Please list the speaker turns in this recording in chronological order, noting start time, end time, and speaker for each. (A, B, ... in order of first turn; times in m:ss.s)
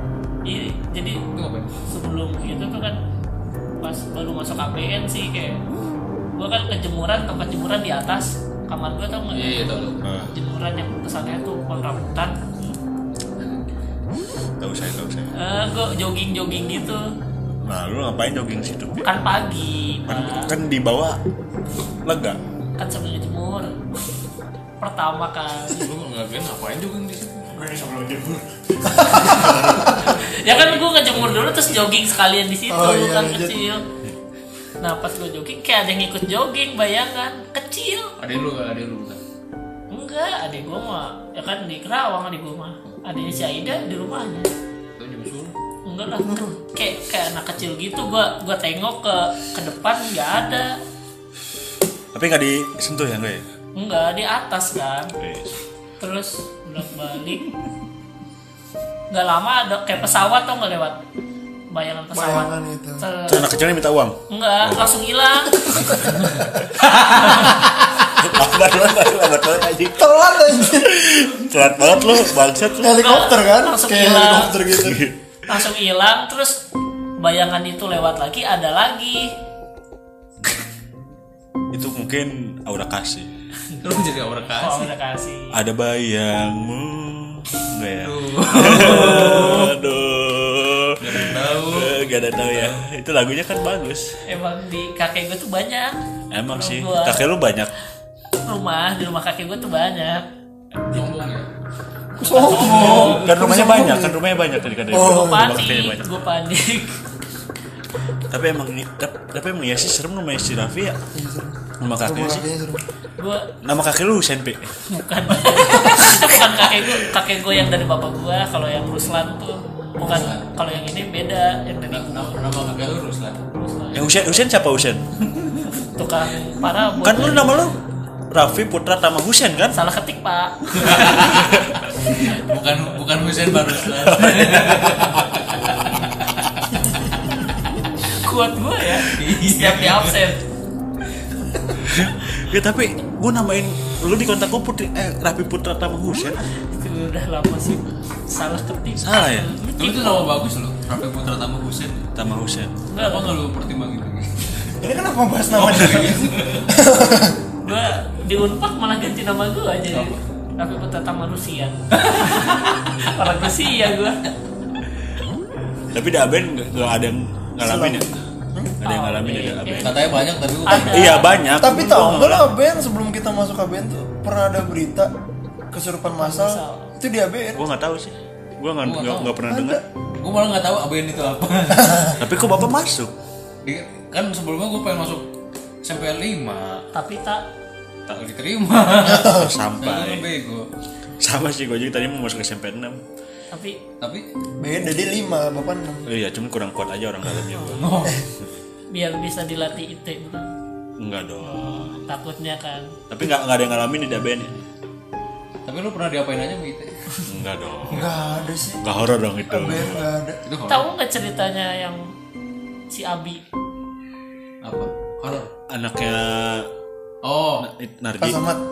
0:00.5-0:01.2 A
0:01.3-0:01.8 B
0:01.9-0:03.0 A
0:03.8-0:05.6 A
0:06.4-0:12.4 A
0:09.3-0:10.0 B
0:10.0-0:10.3 C
0:14.6-0:15.3 C
0:15.4-0:17.0 A
0:17.6-0:19.1 C
0:19.0-0:20.5 A
0:20.1-0:21.2 C
0:22.0-0:22.4 C
0:22.8-0:23.8 A
0:24.8-0:25.9 A
0:25.7-0:27.7 B
0:27.5-0:29.9 C
0:28.8-0:30.1 D
0:29.3-0:29.5 B
0:30.0-0:33.8 A
0:30.5-0:30.8 B
0:32.7-0:33.6 D
0:34.8-0:38.1 A
0:38.2-0:39.2 B
0:39.9-0:44.5 A
0:45.0-0:45.6 B
0:45.9-0:50.7 A
0:46.2-0:46.5 D
0:52.1-0:53.5 C
0:53.8-0:55.1 A
0:55.2-0:55.6 C
0:56.0-0:57.5 A
0:59.1-1:01.0 A
1:01.7-1:03.5 A
1:02.1-1:03.1 D
1:03.3-1:05.0 C
1:04.3-1:05.9 A
1:05.6-1:06.6 D
1:05.8-1:06.2 C
1:07.2-1:07.6 A
1:08.2-1:13.0 C
1:09.8-1:11.0 D
1:12.2-1:15.0 D
1:12.9-1:14.5 A
1:14.8-1:15.2 C
1:15.5-1:16.6 A
1:17.2-1:19.3 A
1:21.7-1:23.3 C
1:23.8-1:24.9 B
1:24.6-1:25.6 A
1:25.5-1:34.2 C
1:28.0-1:29.7 B
1:31.0-1:32.8 B
1:34.3-1:36.0 A
1:36.3-1:37.7 C
1:36.5-1:37.2 A
1:38.4-1:40.2 A
1:40.9-1:41.5 B
1:42.2-1:44.2 D
1:42.3-1:43.2 A
1:42.3-1:43.3 B
1:42.7-1:46.2 C
1:44.9-1:47.0 A
1:44.9-1:45.5 D
1:48.3-1:51.0 C
1:51.1-1:52.8 D
1:51.8-1:52.5 C
1:53.2-1:53.5 A
1:53.6-1:54.8 C
1:54.9-2:02.7 A
1:55.7-1:57.1 C
2:00.0-2:00.3 D
2:00.0-2:00.5 B
2:01.9-2:03.4 B
2:03.5-2:04.4 A
2:03.9-2:05.1 C
2:05.7-2:07.6 A
2:07.0-2:07.8 C
2:08.3-2:09.8 C
2:09.7-2:11.5 A
2:10.8-2:11.4 B
2:10.9-2:11.8 C
2:12.1-2:12.5 A
2:12.1-2:16.5 B
2:13.9-2:15.4 C
2:16.8-2:17.0 D
2:18.0-2:20.4 A
2:19.1-2:20.2 B
2:21.8-2:26.4 C
2:26.7-2:30.3 A
2:29.0-2:29.5 C
2:29.8-2:32.1 B
2:32.2-2:32.7 C
2:32.9-2:33.3 A
2:33.0-2:34.8 B
2:34.8-2:37.4 D
2:35.5-2:36.7 B
2:37.6-2:44.2 A
2:39.9-2:40.2 B
2:42.0-2:42.8 B
2:45.9-2:48.2 C
2:47.6-2:48.8 D
2:48.8-2:52.4 C
2:48.8-2:49.9 A
2:49.8-2:51.2 B
2:50.7-2:51.4 A
2:51.6-2:55.1 D
2:55.7-2:57.6 D
2:56.2-2:56.9 A
2:57.6-2:59.8 C
2:58.8-2:59.3 B
2:59.5-2:59.8 D
3:00.2-3:02.2 B
3:01.8-3:02.1 D
3:02.2-3:03.1 C
3:03.6-3:05.3 B
3:05.8-3:06.8 B
3:06.9-3:07.4 A
3:08.2-3:10.7 B
3:09.0-3:09.5 D
3:09.2-3:10.3 C
3:11.2-3:13.0 C
3:13.5-3:13.8 A
3:14.6-3:16.1 D
3:16.1-3:18.0 C
3:17.7-3:18.2 B
3:18.9-3:20.5 A
3:21.0-3:22.1 C
3:21.4-3:22.9 A
3:23.1-3:24.5 C
3:25.6-3:27.2 B
3:27.3-3:28.1 C
3:27.9-3:30.4 D
3:28.8-3:30.1 C
3:30.4-3:30.9 B
3:30.7-3:32.0 A
3:32.9-3:33.4 A
3:34.6-3:35.5 B
3:35.7-3:36.7 C
3:37.2-3:37.7 B
3:37.6-3:38.4 C
3:38.2-3:38.6 D